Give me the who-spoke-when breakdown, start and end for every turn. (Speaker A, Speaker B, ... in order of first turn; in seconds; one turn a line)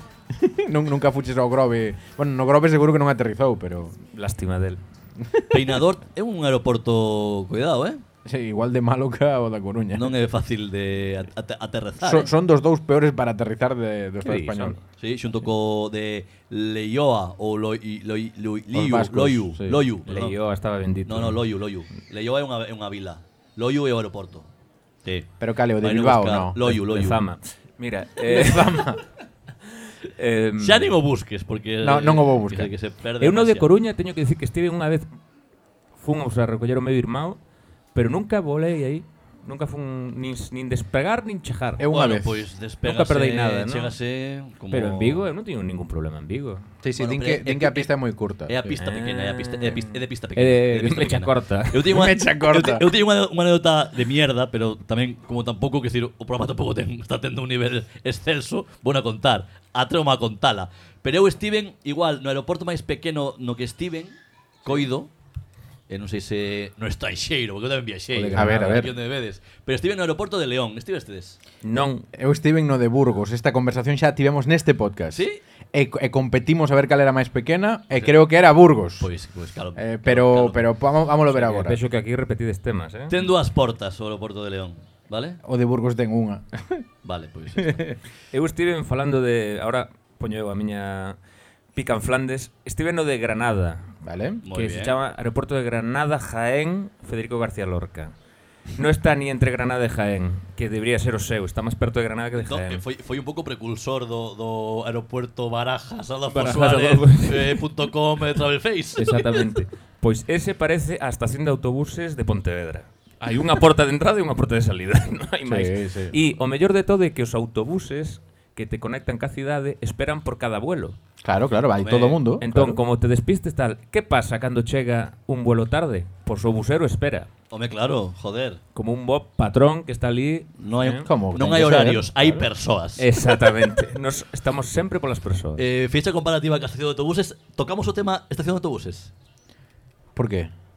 Speaker A: 0.4-4.0
Speaker B: 4.1-4.8
Speaker C: 5.5-8.0
Speaker A: 8.2-10.1
Speaker C: 9.9-12.3
Speaker A: 12.0-14.8
Speaker B: 14.2-14.8
Speaker C: 14.9-20.4
Speaker A: 18.7-19.8
Speaker B: 20.1-21.4
Speaker C: 21.1-24.4
Speaker C: 25.0-25.3
Speaker A: 25.4-26.7
Speaker C: 25.8-27.2
Speaker B: 26.8-28.8
Speaker A: 28.2-29.0
Speaker B: 30.1-30.9
Speaker C: 30.6-33.7
Speaker A: 31.8-32.7
Speaker B: 33.2-35.0
Speaker B: 36.0-37.4
Speaker B: 37.9-41.8
Speaker A: 41.8-42.4
Speaker C: 41.8-45.3
Speaker B: 42.8-43.9
Speaker B: 44.7-46.7
Speaker A: 46.8-48.8
Speaker C: 47.0-47.9
Speaker C: 48.5-65.1
Speaker B: 48.8-51.9
Speaker A: 51.9-52.9
Speaker C: 65.9-71.4
Speaker B: 68.2-68.9
Speaker A: 68.3-68.9
Speaker B: 71.6-72.0
Speaker A: 72.1-79.0
Speaker C: 75.1-75.4
Speaker C: 79.0-80.6
Speaker A: 79.8-81.8
Speaker B: 81.3-83.1
Speaker C: 83.1-85.4
Speaker A: 85.4-86.8
Speaker C: 87.0-87.9
Speaker A: 87.6-87.9
Speaker B: 88.3-91.2
Speaker B: 91.7-93.9
Speaker A: 94.0-94.4
Speaker C: 94.4-95.0
Speaker B: 94.5-98.1
Speaker B: 98.8-102.8
Speaker C: 102.4-109.2
Speaker B: 106.3-107.6
Speaker B: 109.0-121.0
Speaker A: 115.5-116.1
Speaker A: 121.2-122.8
Speaker C: 121.8-122.1
Speaker B: 122.2-127.3
Speaker C: 127.5-128.6
Speaker B: 128.7-131.0
Speaker C: 130.6-133.0
Speaker A: 131.0-132.4
Speaker B: 133.0-135.6
Speaker C: 135.6-139.1
Speaker A: 140.2-140.5